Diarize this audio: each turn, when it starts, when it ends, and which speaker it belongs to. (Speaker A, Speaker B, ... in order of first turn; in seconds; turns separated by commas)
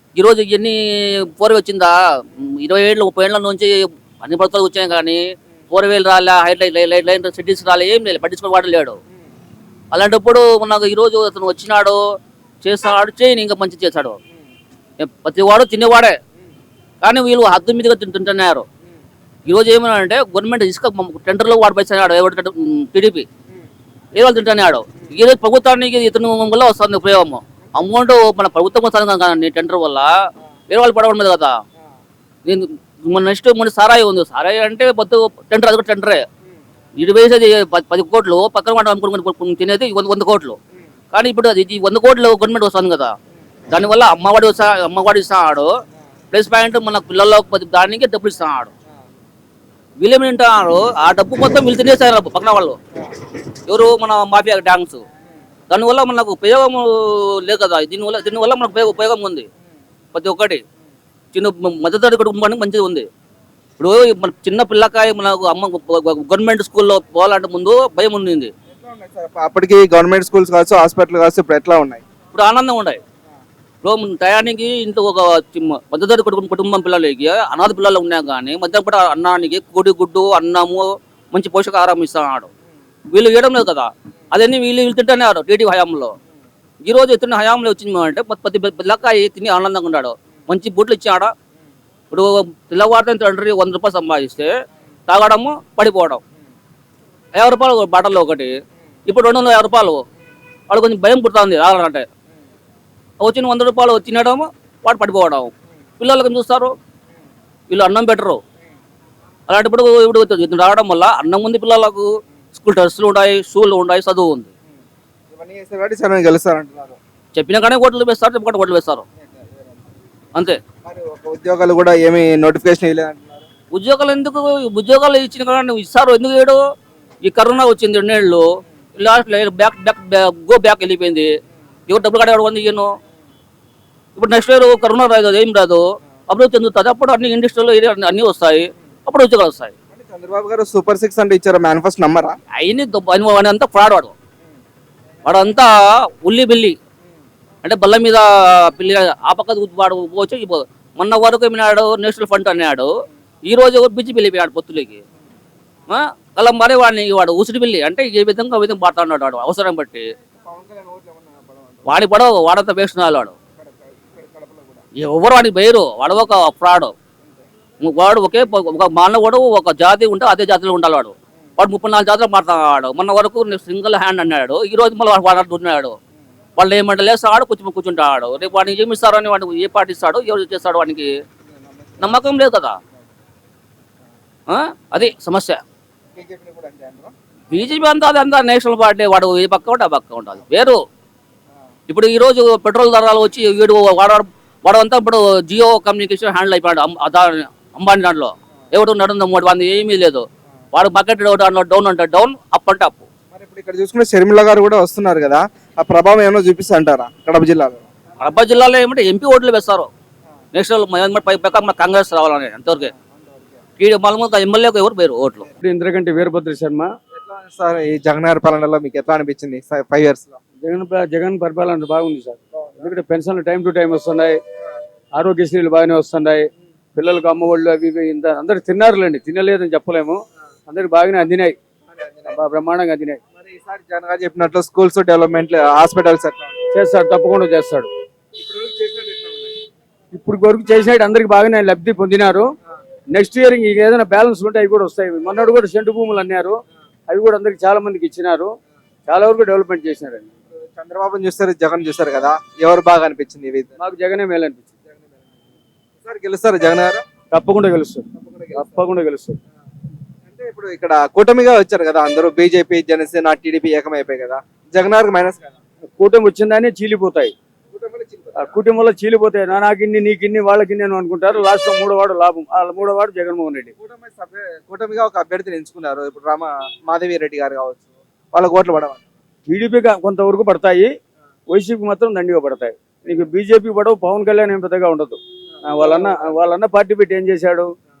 Speaker A: 0.1-9.0, Speaker A: 9.9-12.0, Speaker A: 12.6-14.2, Speaker A: 15.0-16.2, Speaker A: 17.0-18.6, Speaker A: 19.4-23.2, Speaker A: 24.1-30.1, Speaker A: 30.7-31.5, Speaker A: 32.4-36.2, Speaker A: 37.0-40.6, Speaker A: 41.1-43.1, Speaker A: 43.7-45.7, Speaker A: 46.3-48.7, Speaker A: 50.0-52.8, Speaker A: 53.7-55.0, Speaker A: 55.7-59.5, Speaker A: 60.1-60.6, Speaker A: 61.3-63.1, Speaker A: 63.8-68.5, Speaker B: 68.7-72.0, Speaker A: 72.3-73.0, Speaker A: 73.8-82.5, Speaker A: 83.1-86.2, Speaker A: 86.8-91.3, Speaker A: 92.1-94.5, Speaker A: 95.1-96.2, Speaker A: 97.3-98.5, Speaker A: 99.1-100.0, Speaker A: 100.7-102.0, Speaker A: 103.2-106.7, Speaker A: 107.7-108.4, Speaker A: 109.5-114.5, Speaker B: 114.7-117.0, Speaker A: 117.3-119.0, Speaker B: 119.2-119.9, Speaker A: 120.3-120.6, Speaker B: 120.8-123.5, Speaker A: 123.7-126.6, Speaker A: 127.2-128.4, Speaker A: 129.0-131.3, Speaker A: 131.9-132.9, Speaker A: 134.2-139.7, Speaker B: 139.9-142.3, Speaker A: 142.6-144.1, Speaker A: 145.2-146.8, Speaker A: 147.6-152.9, Speaker A: 153.5-155.0, Speaker A: 155.9-160.1, Speaker B: 160.4-162.0, Speaker A: 161.8-163.3, Speaker B: 163.5-164.8, Speaker A: 165.0-166.9, Speaker A: 167.8-175.9, Speaker A: 176.6-181.1, Speaker B: 181.4-182.2, Speaker A: 182.0-182.8, Speaker A: 184.5-185.6, Speaker B: 186.1-187.1, Speaker A: 187.5-190.8, Speaker A: 191.9-203.1, Speaker B: 203.3-207.9, Speaker A: 208.2-209.9, Speaker A: 210.5-212.9, Speaker B: 212.8-213.6, Speaker A: 213.8-215.5, Speaker C: 215.6-216.9, Speaker B: 217.1-220.4, Speaker C: 220.6-224.4, Speaker C: 225.2-231.6, Speaker B: 231.9-232.4, Speaker C: 232.3-233.2, Speaker B: 233.3-236.6, Speaker C: 236.7-237.9, Speaker B: 238.3-239.6, Speaker C: 240.1-242.5, Speaker C: 243.1-246.6, Speaker C: 247.1-248.5, Speaker C: 249.1-250.3, Speaker B: 250.5-253.8, Speaker C: 253.8-254.7, Speaker B: 254.9-257.0, Speaker C: 257.3-259.4, Speaker B: 258.1-258.8, Speaker B: 260.2-265.6, Speaker C: 266.0-267.3, Speaker B: 267.7-268.6, Speaker C: 268.4-273.7, Speaker B: 273.8-279.0, Speaker C: 279.5-280.9, Speaker C: 281.5-287.7, Speaker B: 285.5-286.3